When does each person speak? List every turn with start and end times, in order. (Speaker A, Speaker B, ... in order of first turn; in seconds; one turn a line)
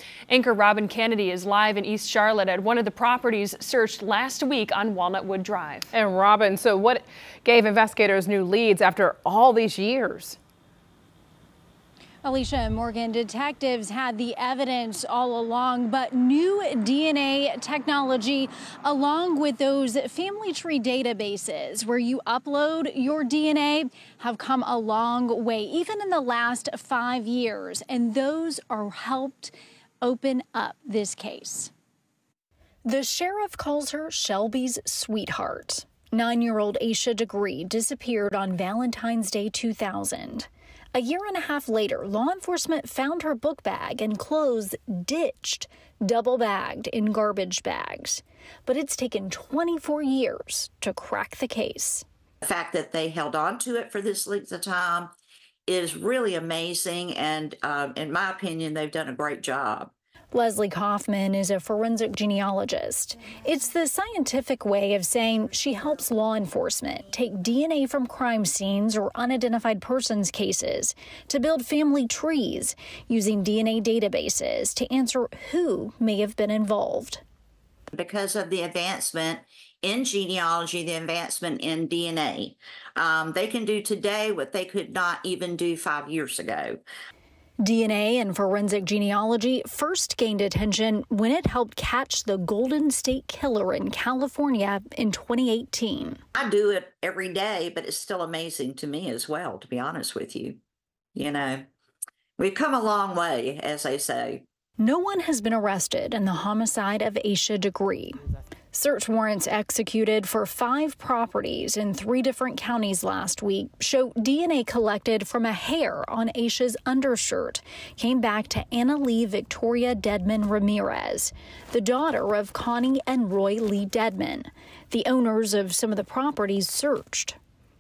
Speaker A: 0.3-5.9
Speaker B: 5.9-10.4
Speaker C: 12.2-31.7
Speaker C: 32.9-52.0
Speaker D: 52.4-55.1
Speaker D: 55.7-59.9
Speaker C: 60.3-77.2
Speaker D: 77.9-86.8
Speaker C: 87.6-96.2
Speaker D: 96.4-100.6
Speaker D: 101.2-101.7
Speaker D: 102.4-104.4
Speaker C: 104.8-108.2
Speaker C: 108.7-127.4